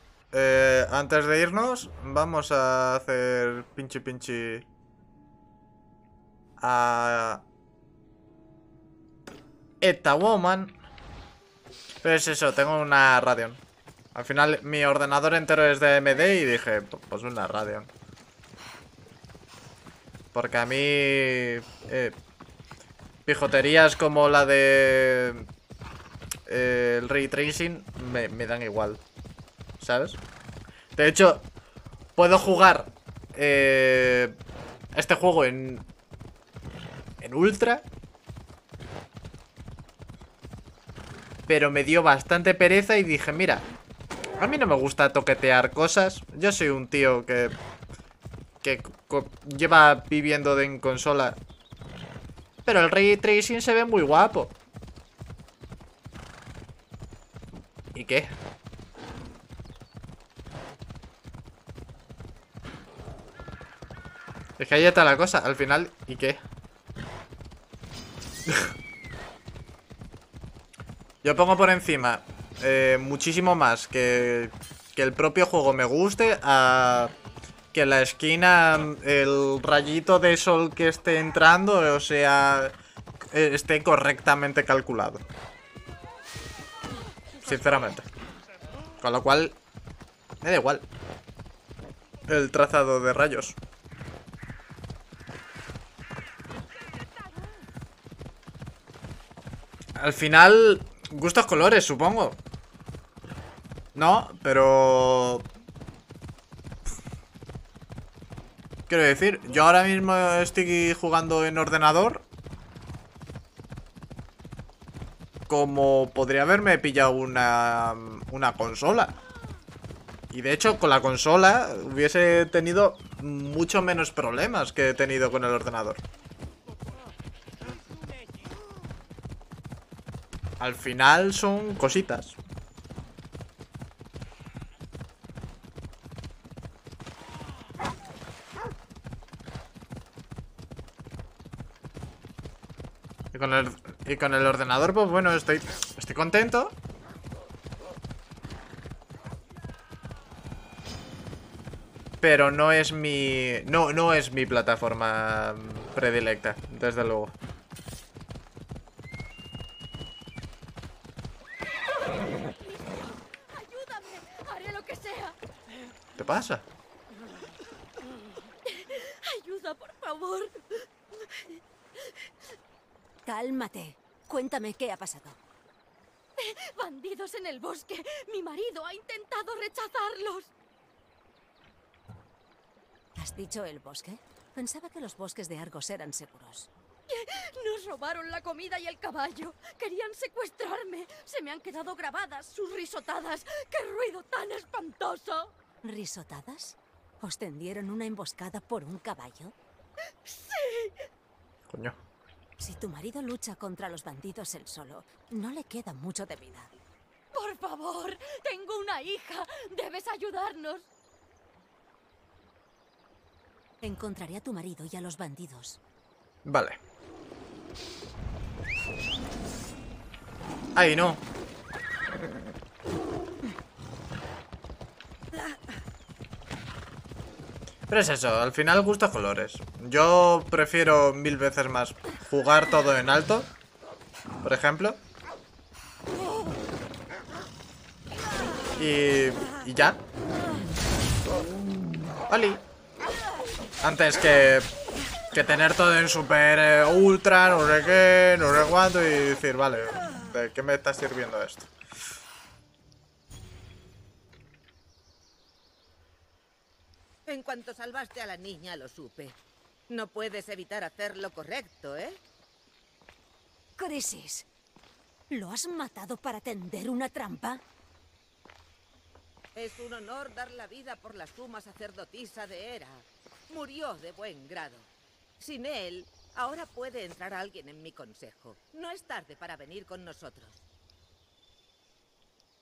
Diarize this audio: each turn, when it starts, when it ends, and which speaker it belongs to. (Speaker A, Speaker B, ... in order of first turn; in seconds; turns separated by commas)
Speaker A: 0.3-4.7, Speaker A: 6.6-7.4, Speaker A: 9.8-10.8, Speaker A: 12.0-13.6, Speaker A: 14.1-17.9, Speaker A: 20.3-22.1, Speaker A: 23.2-25.5, Speaker A: 26.5-29.0, Speaker A: 29.8-30.2, Speaker A: 30.9-31.5, Speaker A: 32.1-34.4, Speaker A: 34.9-35.9, Speaker A: 37.2-37.9, Speaker A: 41.5-43.6, Speaker A: 44.4-47.5, Speaker A: 48.6-51.4, Speaker A: 52.6-54.5, Speaker A: 57.9-58.3, Speaker A: 64.6-66.4, Speaker A: 68.5-68.7, Speaker A: 71.2-77.1, Speaker A: 77.7-85.2, Speaker A: 87.4-88.1, Speaker A: 89.0-89.6, Speaker A: 90.4-90.8, Speaker A: 92.3-93.6, Speaker A: 100.0-102.4, Speaker A: 103.9-105.5, Speaker A: 108.9-112.2, Speaker A: 115.5-119.2, Speaker A: 120.3-126.0, Speaker A: 130.6-132.3, Speaker A: 143.3-146.8, Speaker A: 152.2-157.3, Speaker B: 162.1-165.3, Speaker A: 166.2-166.7, Speaker B: 168.6-172.1, Speaker C: 173.2-175.4, Speaker B: 176.4-180.5, Speaker C: 183.2-186.7, Speaker B: 187.1-195.5, Speaker C: 195.8-199.5, Speaker B: 200.2-201.0, Speaker A: 201.7-202.0, Speaker C: 202.6-206.7, Speaker B: 207.3-210.9, Speaker C: 213.8-215.8, Speaker A: 216.4-216.8, Speaker A: 220.7-221.2, Speaker A: 227.9-233.5, Speaker A: 234.4-235.0, Speaker A: 238.8-240.0, Speaker A: 242.2-242.6, Speaker A: 243.8-244.7, Speaker A: 245.3-251.7, Speaker D: 257.3-259.4, Speaker D: 259.9-262.2, Speaker C: 263.8-264.5, Speaker C: 265.3-267.6, Speaker D: 269.5-280.6